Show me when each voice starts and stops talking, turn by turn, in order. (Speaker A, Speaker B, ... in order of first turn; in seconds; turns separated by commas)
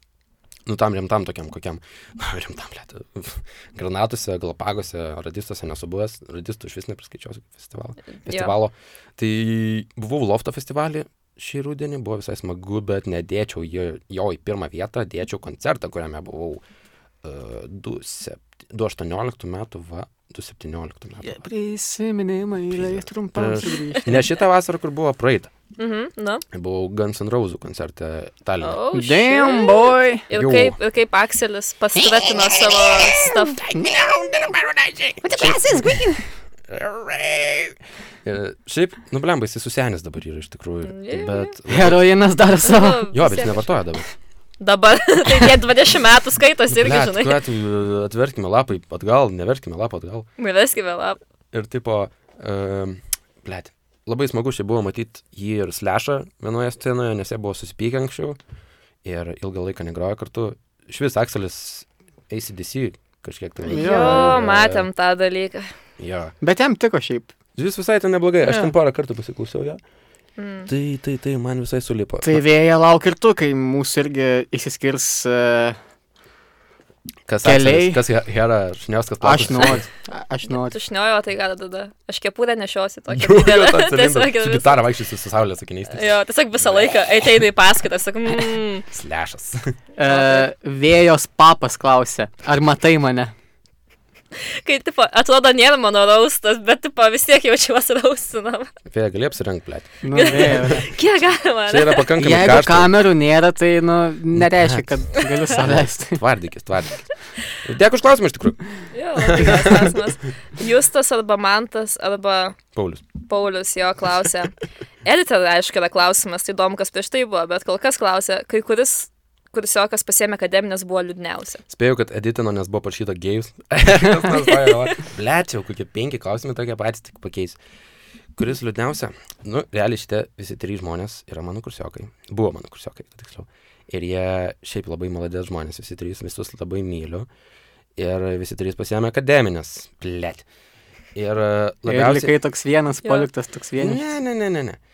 Speaker A: 0.7-16.6, Speaker B: 8.2-8.5, Speaker A: 17.2-21.4, Speaker C: 21.2-24.2, Speaker A: 22.7-25.5, Speaker B: 25.8-26.4, Speaker A: 26.5-28.8, Speaker B: 28.6-33.6, Speaker C: 28.9-30.3, Speaker A: 30.3-30.8, Speaker C: 33.2-34.1, Speaker A: 33.9-36.0, Speaker C: 35.2-36.2, Speaker A: 36.7-42.0, Speaker B: 40.8-41.5, Speaker C: 41.7-43.1, Speaker B: 42.6-43.7, Speaker A: 43.1-44.1, Speaker B: 44.6-47.4, Speaker A: 46.7-50.3, Speaker B: 50.4-51.2, Speaker A: 51.5-58.4, Speaker A: 59.0-64.9, Speaker C: 63.7-64.3, Speaker B: 63.7-65.7, Speaker A: 66.0-66.3, Speaker C: 66.4-67.3, Speaker A: 67.6-69.8, Speaker C: 68.5-68.7, Speaker B: 70.4-70.7, Speaker A: 70.7-72.4, Speaker C: 72.2-75.8, Speaker A: 77.3-79.9, Speaker C: 77.4-78.0, Speaker C: 79.2-80.8, Speaker B: 80.5-84.9, Speaker A: 83.1-86.9, Speaker B: 85.9-88.9, Speaker A: 88.9-89.7, Speaker C: 90.0-93.3, Speaker B: 90.0-90.5, Speaker B: 94.6-98.7, Speaker A: 98.9-100.9, Speaker C: 100.0-100.9, Speaker B: 100.1-102.1, Speaker A: 101.7-102.9, Speaker C: 102.2-106.2, Speaker A: 104.3-107.1, Speaker A: 107.6-108.6, Speaker B: 108.9-112.6, Speaker A: 109.2-110.0, Speaker A: 112.8-113.1, Speaker B: 113.3-114.5, Speaker B: 115.0-121.6, Speaker A: 121.7-127.6, Speaker A: 128.4-137.3, Speaker A: 138.0-140.5, Speaker A: 141.2-142.3, Speaker C: 141.9-144.1, Speaker A: 143.8-144.8